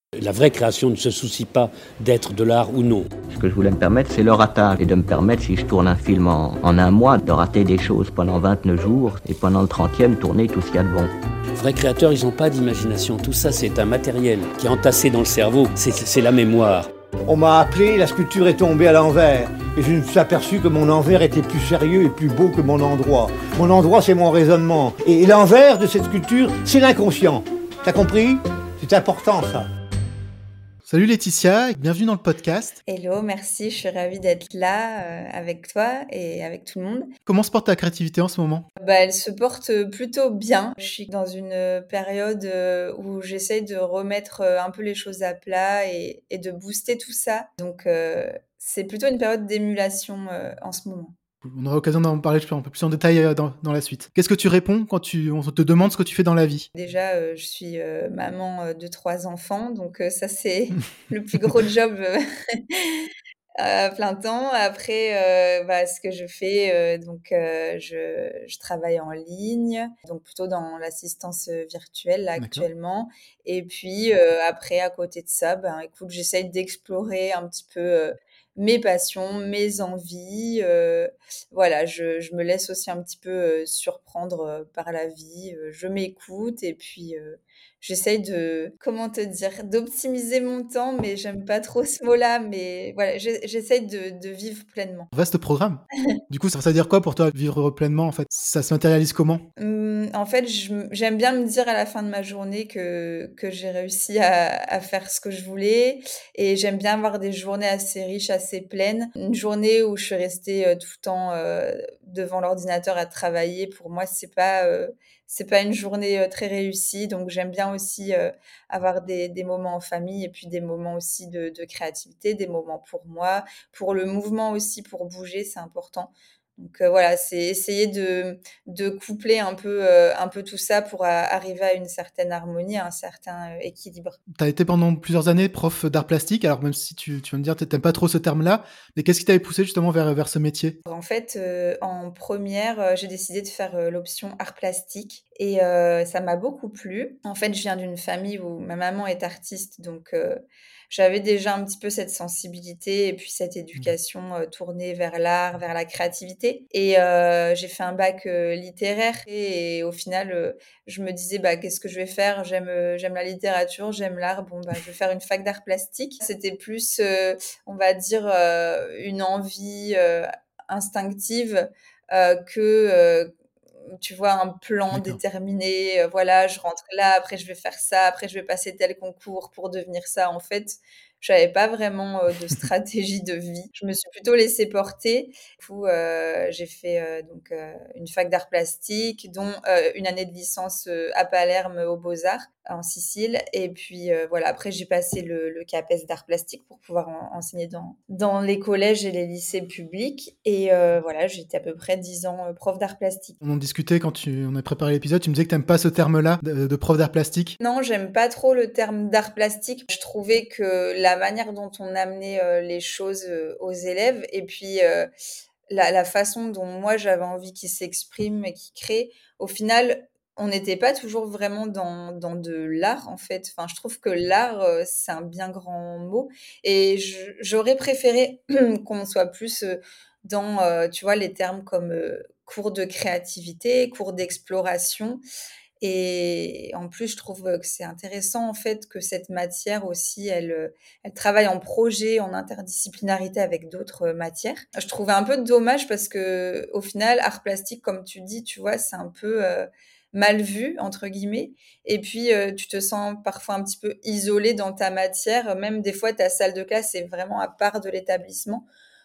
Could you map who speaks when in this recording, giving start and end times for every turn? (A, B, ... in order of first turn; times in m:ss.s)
0:00.2-0:03.1 A
0:03.3-0:11.1 B
0:11.5-0:16.9 A
0:17.3-0:29.7 C
0:30.8-0:32.8 D
0:32.8-0:37.1 E
0:37.2-0:38.6 D
0:38.8-0:51.1 E
0:51.4-0:56.7 D
0:56.7-1:35.1 E
1:12.4-1:12.7 D
1:35.1-1:39.4 D
1:39.6-2:14.2 E
2:14.3-2:20.8 D
2:20.8-2:53.3 E
2:53.9-3:23.4 E
2:54.9-2:55.2 D
3:23.4-3:27.6 D
3:27.6-3:35.1 E
3:35.7-3:55.2 E
3:55.8-4:18.6 E